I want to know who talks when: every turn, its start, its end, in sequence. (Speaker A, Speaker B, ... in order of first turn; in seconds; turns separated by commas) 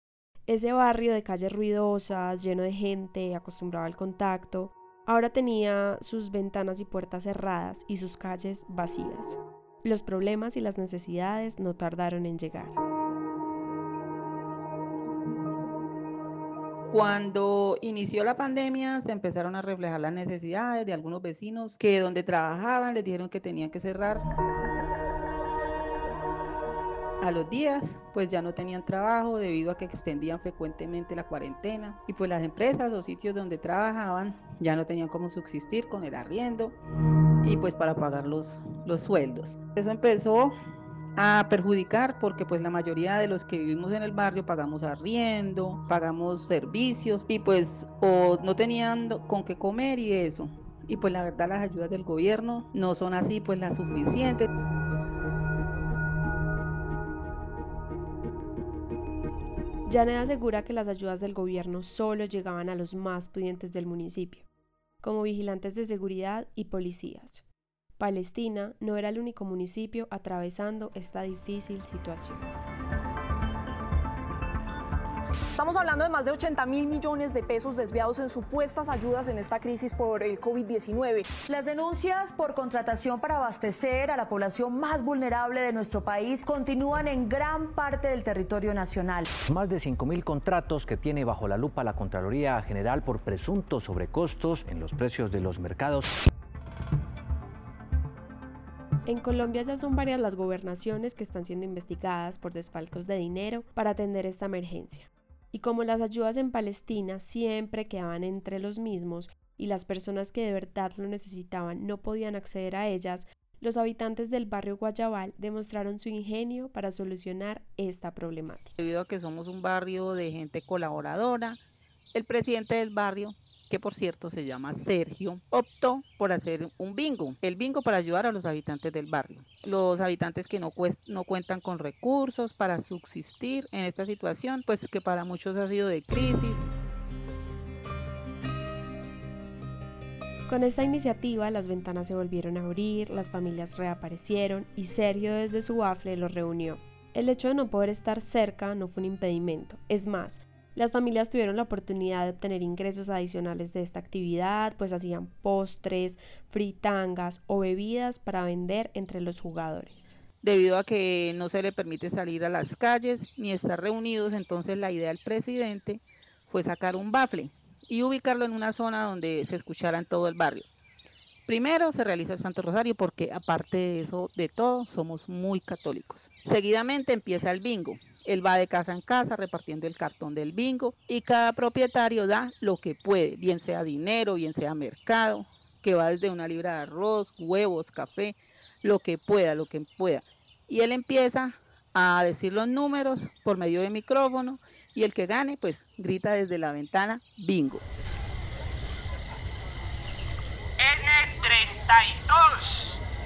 Speaker A: 0.5-12.8, Speaker B: 16.9-24.2, Speaker B: 27.2-36.8, Speaker B: 37.4-40.5, Speaker B: 41.2-54.5, Speaker A: 59.9-64.5, Speaker A: 65.0-67.5, Speaker A: 68.0-72.5, Speaker C: 75.5-81.4, Speaker D: 81.4-89.3, Speaker E: 89.5-96.1, Speaker A: 99.1-118.8, Speaker B: 118.8-121.6, Speaker B: 122.1-136.7, Speaker A: 140.5-160.2, Speaker B: 160.4-170.7, Speaker B: 171.5-197.8